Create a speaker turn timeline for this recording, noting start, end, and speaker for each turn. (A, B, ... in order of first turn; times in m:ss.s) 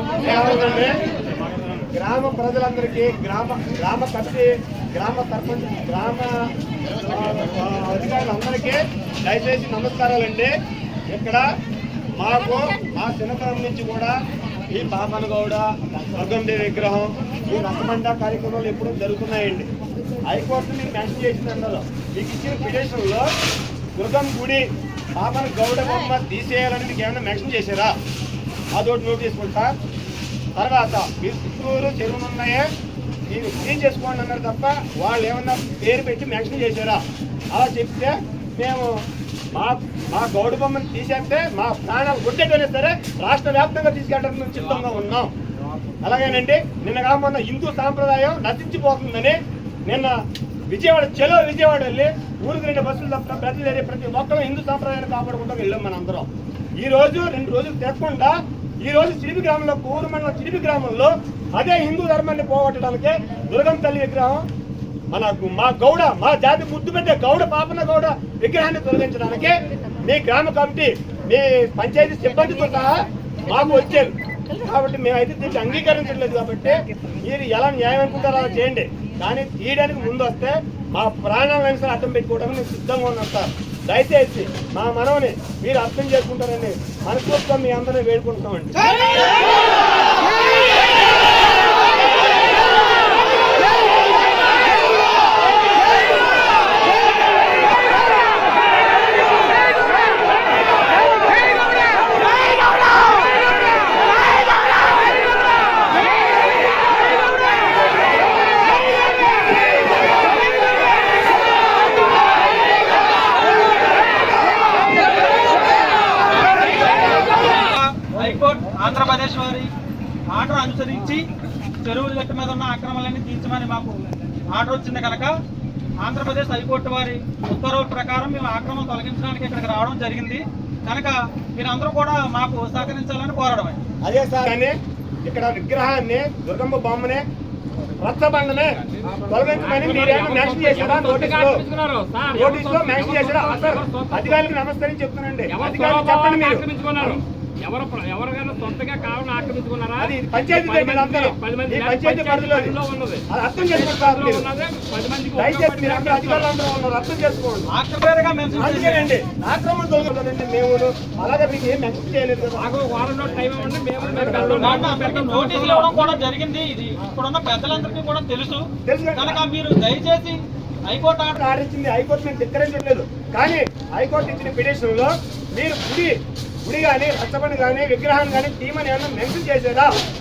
0:00.2-0:01.0 A
0:01.7-0:06.3 A
0:07.0-0:10.5 A
0:11.1-0:11.4 A
0:12.1-0:14.1 A
0:14.7-0:19.7 A
0:20.2-0:23.3 A
0:24.0-0:27.9 A
0:28.7-0:29.7 A
0:30.6-0:32.7 A
0:33.3-0:37.0 A
0:37.5-0:38.9 A
0:39.5-0:45.3 A
0:46.0-0:50.2 A
0:50.7-0:56.3 A
0:56.8-1:04.4 A
1:05.1-1:12.9 A
1:13.4-1:28.8 A
1:56.4-1:59.7 B
2:00.3-2:01.2 B
2:01.8-2:05.3 B
2:06.0-2:13.8 B
2:14.0-2:14.7 A
2:15.2-2:17.2 A
2:18.0-2:18.7 A
2:19.3-2:21.6 A
2:19.7-2:24.2 C
2:22.3-2:27.2 A
2:25.6-2:30.1 C
2:30.0-2:34.5 A
2:30.6-2:33.2 C
2:33.8-2:36.4 C
2:35.3-2:37.7 A
2:37.7-2:39.1 B
2:38.6-2:42.8 A
2:42.6-2:45.8 C
2:44.1-2:44.9 A
2:44.6-2:51.4 B
2:48.8-2:49.4 A
2:51.3-2:56.1 A
2:56.6-2:59.9 A